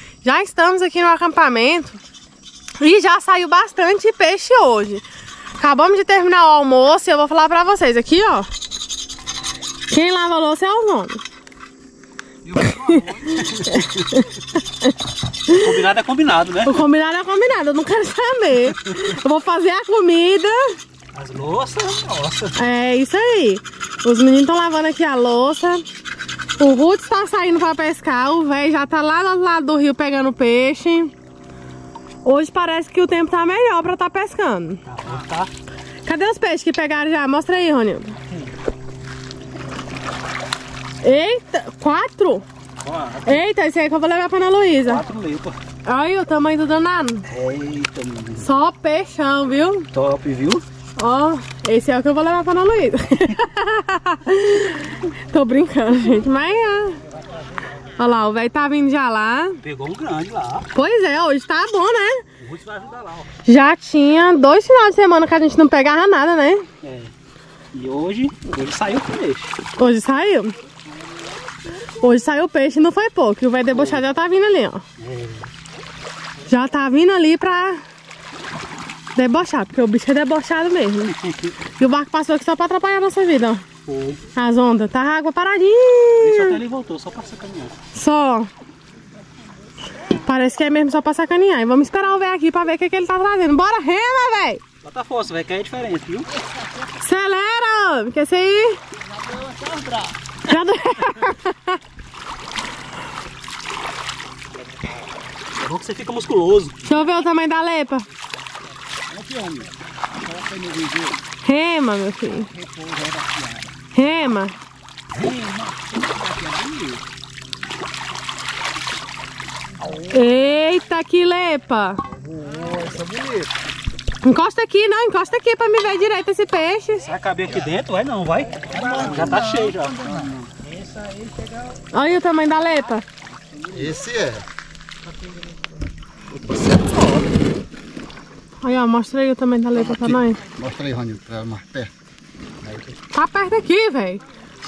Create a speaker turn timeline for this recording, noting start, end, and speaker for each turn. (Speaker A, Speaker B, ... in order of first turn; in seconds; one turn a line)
Speaker A: 0.2-2.0
Speaker A: 2.8-5.0
Speaker A: 5.6-8.5
Speaker A: 9.9-11.2
Speaker B: 12.5-13.7
Speaker A: 13.5-14.9
Speaker A: 15.5-15.7
Speaker B: 15.5-16.8
Speaker A: 16.6-20.8
Speaker B: 21.1-22.6
Speaker A: 22.6-25.8
Speaker A: 26.6-31.1
Speaker A: 32.2-34.8
Speaker B: 34.9-35.5
Speaker A: 36.0-38.1
Speaker A: 41.0-42.5
Speaker B: 42.8-43.4
Speaker A: 43.2-45.0
Speaker B: 44.8-45.6
Speaker A: 45.9-47.2
Speaker B: 47.3-48.5
Speaker A: 48.4-49.9
Speaker B: 49.9-50.6
Speaker A: 51.0-57.0
Speaker A: 58.0-59.6
Speaker B: 59.6-60.7
Speaker A: 60.7-62.2
Speaker B: 62.4-63.3
Speaker A: 63.5-66.7
Speaker B: 66.8-67.1
Speaker B: 67.7-69.5
Speaker A: 69.8-70.5
Speaker A: 72.0-74.8
Speaker B: 73.7-74.0
Speaker B: 75.0-75.5
Speaker A: 76.5-77.8
Speaker A: 79.1-81.2
Speaker A: 81.8-83.6
Speaker B: 83.9-84.2
Speaker A: 84.3-86.6
Speaker B: 86.2-87.8
Speaker A: 87.9-88.5
Speaker A: 90.0-94.6
Speaker B: 94.8-96.3
Speaker C: 96.4-96.8
Speaker A: 97.0-98.8
Speaker C: 99.0-100.2
Speaker A: 100.5-101.8
Speaker B: 105.6-106.9
Speaker A: 106.8-108.0
Speaker C: 109.1-111.2
Speaker A: 111.4-112.5
Speaker C: 112.4-113.7
Speaker A: 113.9-114.5
Speaker B: 115.2-115.6
Speaker C: 115.3-117.0
Speaker A: 120.1-122.0
Speaker A: 124.2-127.1
Speaker B: 127.0-131.8
Speaker C: 128.7-130.4
Speaker A: 131.9-133.0
Speaker B: 133.5-134.0
Speaker C: 133.7-134.4
Speaker B: 136.3-137.3
Speaker A: 138.6-140.4
Speaker C: 139.8-141.9
Speaker B: 142.7-142.9
Speaker A: 143.1-144.2